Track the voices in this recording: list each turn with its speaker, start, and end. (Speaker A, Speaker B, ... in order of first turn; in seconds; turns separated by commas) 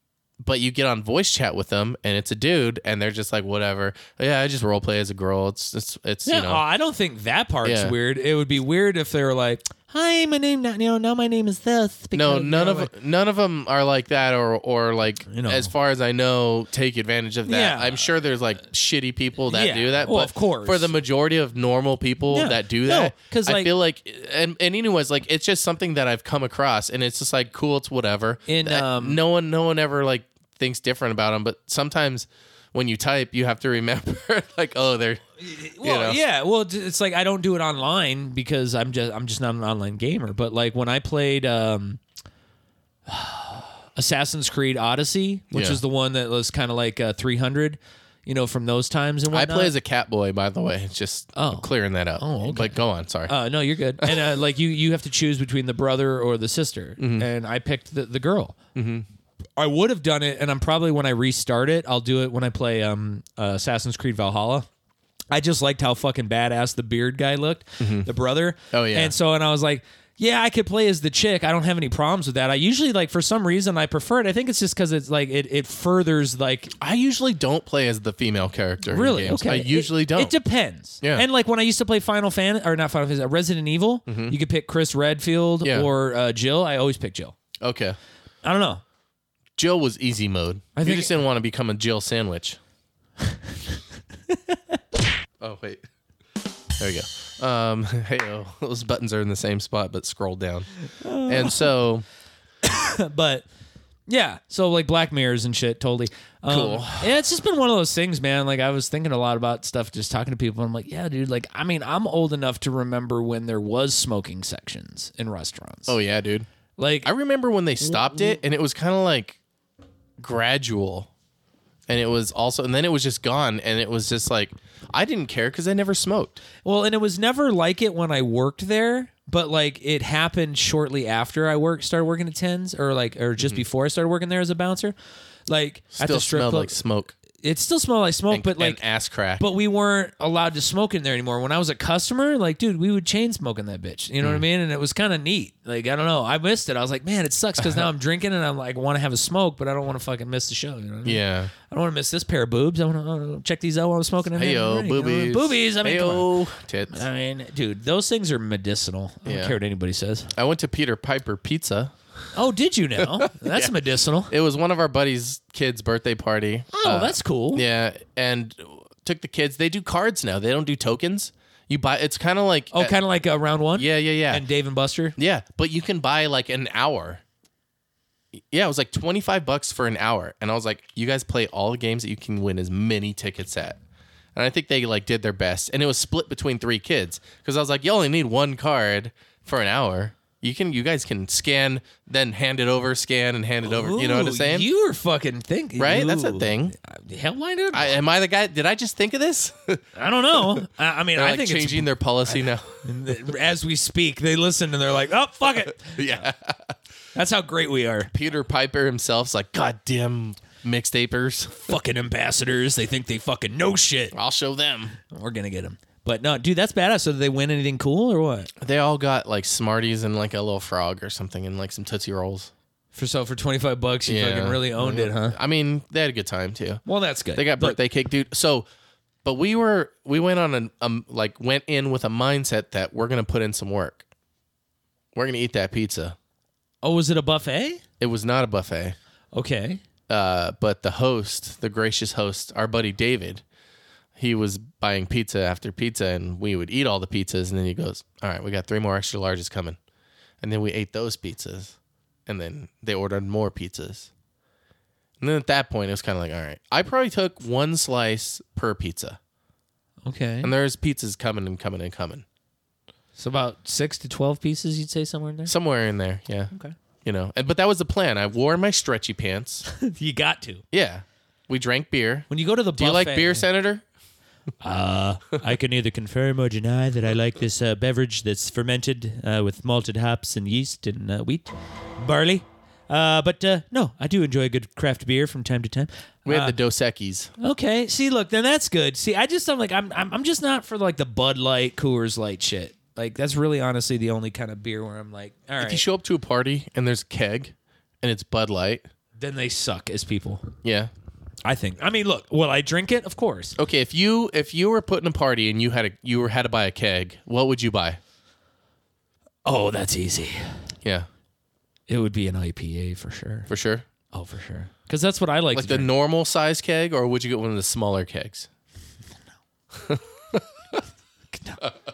Speaker A: 0.4-6.6, Speaker B: 6.3-12.9, Speaker A: 7.6-8.0, Speaker A: 12.1-35.3, Speaker B: 15.3-15.7, Speaker B: 17.4-18.1, Speaker B: 19.5-20.9, Speaker B: 22.3-23.7, Speaker B: 28.5-29.2, Speaker B: 35.4-42.0, Speaker A: 35.8-36.2, Speaker B: 43.1-49.7, Speaker A: 45.5-45.8, Speaker A: 49.3-53.4, Speaker B: 51.4-58.6, Speaker A: 57.0-57.3, Speaker A: 58.8-59.1, Speaker B: 59.6-64.7, Speaker B: 65.3-76.7, Speaker A: 67.8-68.1, Speaker A: 68.7-69.2, Speaker A: 76.8-80.3, Speaker B: 78.8-87.3, Speaker A: 84.1-84.4, Speaker A: 85.6-85.9, Speaker A: 87.6-88.0, Speaker B: 88.4-88.8, Speaker A: 89.6-92.6, Speaker B: 90.8-91.2, Speaker B: 94.3-94.8, Speaker A: 95.4-95.8, Speaker A: 96.8-100.7, Speaker B: 101.0-101.7, Speaker A: 101.3-102.0, Speaker B: 102.6-103.5, Speaker B: 104.1-116.0, Speaker A: 106.5-107.1, Speaker A: 115.9-116.5, Speaker B: 116.8-117.1, Speaker A: 117.0-119.4, Speaker B: 117.8-118.4, Speaker A: 120.2-121.1, Speaker A: 121.9-126.4, Speaker B: 126.7-134.9, Speaker A: 133.4-133.7, Speaker B: 135.5-136.8, Speaker A: 135.9-137.1, Speaker B: 137.3-138.8, Speaker A: 138.3-139.4, Speaker B: 139.4-156.3, Speaker A: 147.6-147.9, Speaker A: 151.0-151.5, Speaker A: 154.3-157.1, Speaker B: 156.9-160.3, Speaker A: 159.2-159.6, Speaker A: 160.3-161.9, Speaker B: 162.3-164.3, Speaker A: 163.0-163.8, Speaker A: 164.3-173.0, Speaker B: 166.7-167.6, Speaker B: 172.7-175.2, Speaker A: 173.8-174.4, Speaker A: 175.2-177.2, Speaker A: 178.3-183.8, Speaker A: 184.3-194.7, Speaker B: 193.7-198.0, Speaker A: 195.8-196.8, Speaker A: 197.7-199.8, Speaker B: 200.0-206.0, Speaker A: 201.2-202.8, Speaker A: 205.8-206.8, Speaker B: 207.2-208.1, Speaker A: 208.1-211.7, Speaker B: 211.6-214.2, Speaker A: 214.1-215.0, Speaker B: 215.1-218.5, Speaker A: 218.6-222.5, Speaker B: 222.9-225.4, Speaker A: 224.1-226.8, Speaker B: 226.9-227.8, Speaker A: 227.3-228.7, Speaker A: 229.2-234.1, Speaker A: 235.2-236.2, Speaker B: 236.8-237.8, Speaker A: 238.0-239.0, Speaker B: 239.3-239.8, Speaker A: 240.1-243.4, Speaker A: 244.2-249.8, Speaker A: 250.4-251.8, Speaker A: 252.3-254.1, Speaker A: 255.2-259.2, Speaker B: 260.1-260.5, Speaker A: 260.4-262.2, Speaker B: 263.2-265.5, Speaker A: 265.5-266.5, Speaker A: 267.0-269.7, Speaker B: 269.7-270.6, Speaker A: 270.7-273.8, Speaker B: 272.3-273.5, Speaker B: 274.6-286.6, Speaker A: 286.3-287.3, Speaker B: 287.4-295.8, Speaker A: 295.6-298.9, Speaker B: 299.2-300.5, Speaker A: 300.6-300.9, Speaker B: 301.4-303.6, Speaker A: 303.6-308.0, Speaker B: 309.4-310.6, Speaker A: 310.8-311.1, Speaker B: 311.9-313.5, Speaker A: 313.5-313.9, Speaker B: 314.1-315.9, Speaker A: 315.5-318.5, Speaker A: 319.8-320.8, Speaker B: 321.3-321.6